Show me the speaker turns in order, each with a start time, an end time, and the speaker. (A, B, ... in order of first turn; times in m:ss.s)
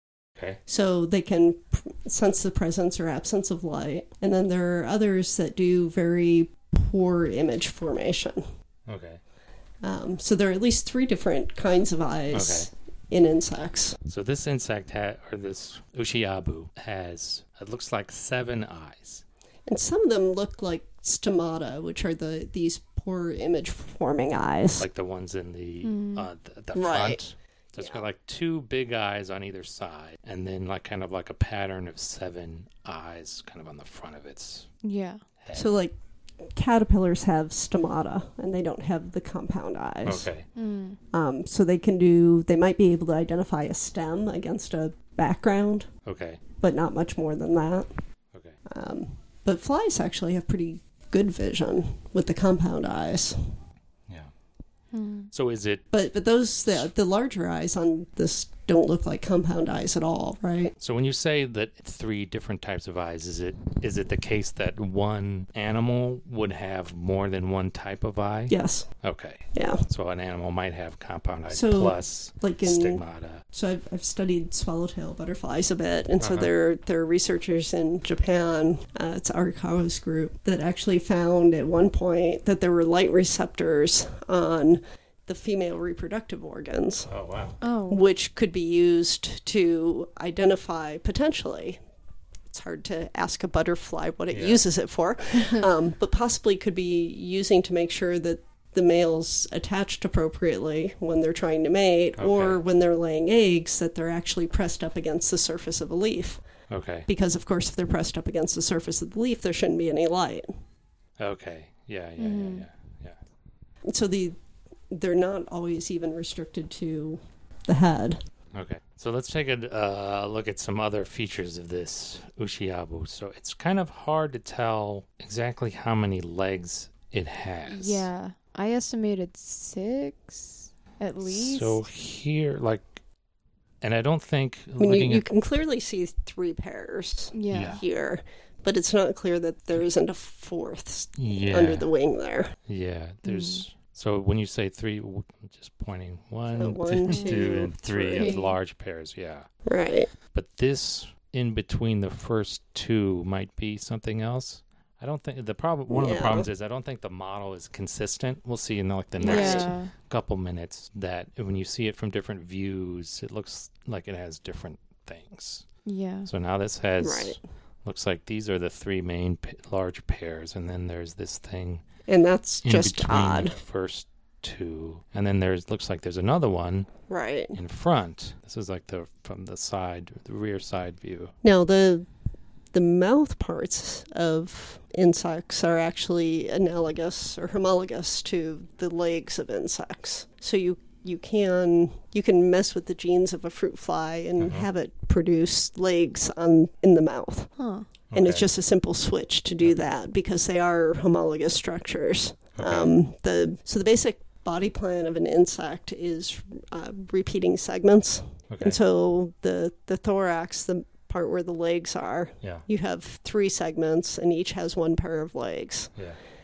0:00.7-0:08.4 A
0:08.9-0:09.2 B
0:09.8-0:14.0 A
0:12.3-0:12.7 B
0:14.1-0:19.2 B
0:19.7-0:24.9 A
0:24.8-0:34.7 B
0:25.8-0:26.3 C
0:26.8-0:27.2 A
0:27.8-0:28.0 A
0:34.8-0:35.2 C
0:35.4-0:35.7 B
0:35.5-0:36.0 A
0:36.6-0:40.3 A
0:40.0-0:40.5 B
0:40.6-0:41.0 C
0:41.1-0:45.9 A
0:46.0-0:46.4 B
0:46.6-0:47.9 A
0:48.7-0:53.4 A
0:54.9-0:55.3 C
0:55.3-0:55.8 B
0:55.9-1:00.8 A
1:00.8-1:13.4 B
1:08.5-1:09.0 A
1:09.5-1:09.8 A
1:11.5-1:27.1 A
1:16.2-1:16.5 B
1:27.1-1:27.6 B
1:27.6-1:28.0 C
1:27.9-1:31.8 A
1:32.5-1:46.4 A
1:34.3-1:34.6 B
1:42.2-1:42.6 B
1:46.7-1:47.1 B
1:47.1-1:50.5 A
1:51.2-1:53.2 B
1:52.2-1:52.6 C
1:53.9-1:54.4 A
1:54.9-1:58.2 A
1:58.5-2:08.1 B
2:07.7-2:11.8 C
2:11.2-2:13.0 B
2:13.8-2:15.3 B
2:14.8-2:22.5 A
2:17.3-2:17.8 C
2:17.5-2:17.8 B
2:21.2-2:21.9 B
2:22.7-2:29.5 B
2:23.2-2:23.6 C
2:26.5-2:28.4 A
2:27.1-2:27.4 C
2:28.2-2:28.6 C
2:29.7-2:30.1 A
2:30.3-2:45.7 B
2:35.9-2:36.5 A
2:39.2-2:39.9 C
2:39.2-2:39.7 A
2:45.8-2:46.3 C
2:46.3-2:51.8 B
2:47.0-2:47.4 A
2:52.1-2:53.6 A
2:52.6-2:56.9 B
2:57.1-2:57.6 A
2:57.5-3:01.3 B
3:01.4-3:02.1 A
3:02.7-3:17.5 A
3:14.4-3:14.7 B
3:17.6-3:17.9 C
3:18.1-3:18.5 B
3:18.1-3:35.9 A
3:22.6-3:22.9 B
3:28.5-3:28.8 B